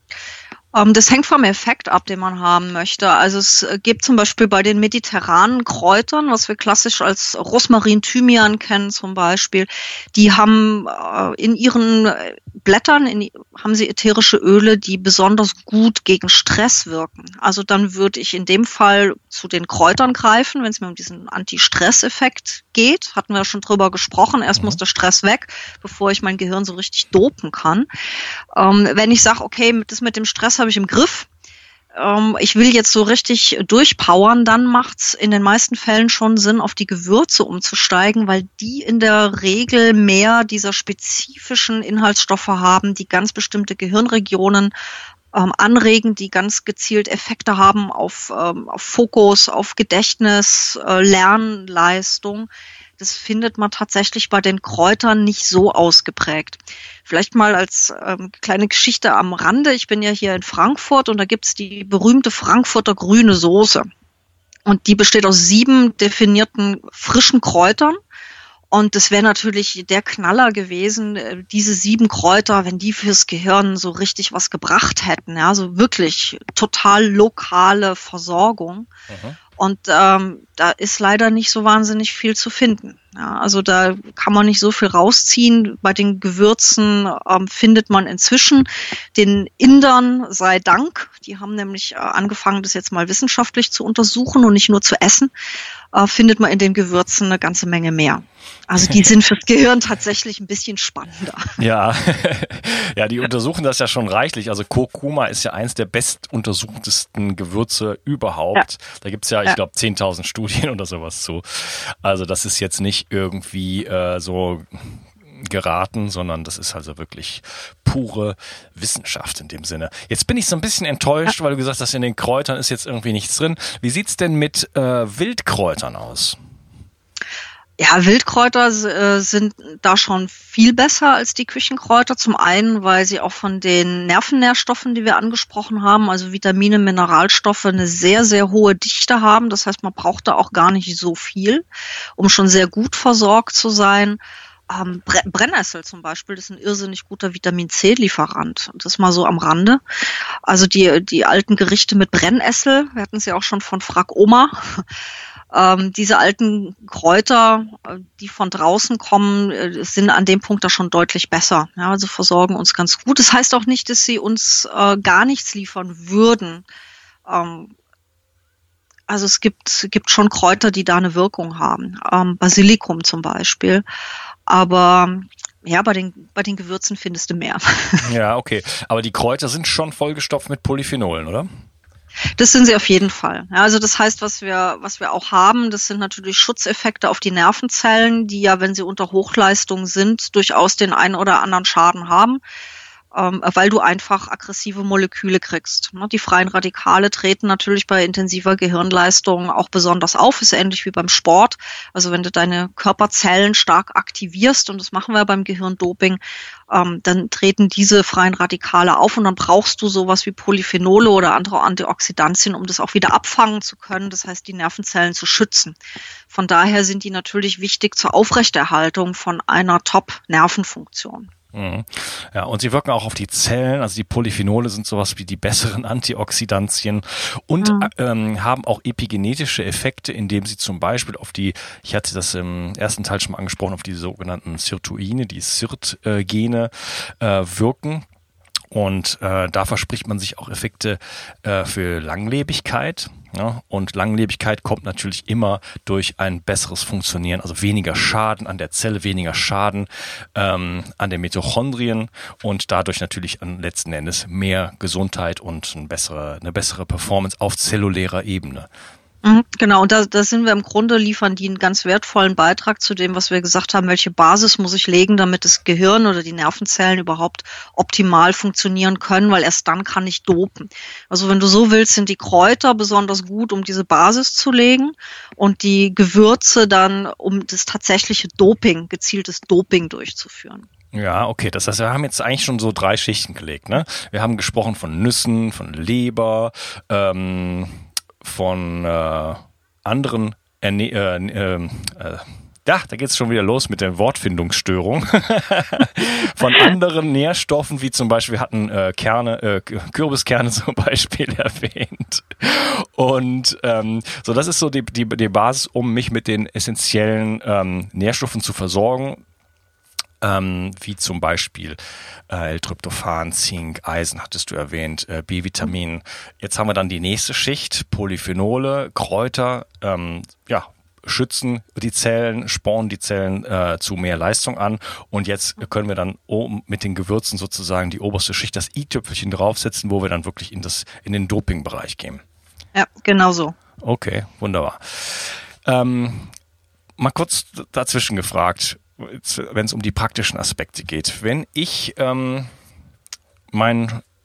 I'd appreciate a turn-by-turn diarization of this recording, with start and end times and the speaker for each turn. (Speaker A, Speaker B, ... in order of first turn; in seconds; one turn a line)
Speaker A: 0.7-27.9
Speaker A: 28.6-31.3
Speaker A: 31.9-44.7
Speaker A: 45.3-63.9
Speaker A: 64.7-68.0
Speaker A: 68.7-78.9
Speaker B: 79.1-79.4
Speaker A: 79.6-95.3
Speaker A: 95.9-101.5
Speaker B: 101.6-126.4
Speaker A: 127.8-141.7
Speaker A: 142.2-149.8
Speaker A: 150.4-154.8
Speaker A: 155.5-166.7
Speaker A: 167.3-167.7
Speaker A: 169.1-173.8
Speaker A: 174.5-178.1
Speaker B: 178.0-181.5
Speaker A: 182.4-192.4
Speaker A: 193.1-215.8
Speaker A: 216.3-221.3
Speaker B: 221.5-238.1
Speaker A: 227.6-227.9
Speaker B: 238.7-258.7
Speaker A: 259.2-280.7
Speaker B: 280.9-309.2
Speaker B: 310.2-332.2
Speaker A: 332.7-333.5
Speaker B: 333.8-336.3
Speaker B: 337.0-342.5
Speaker B: 343.5-344.0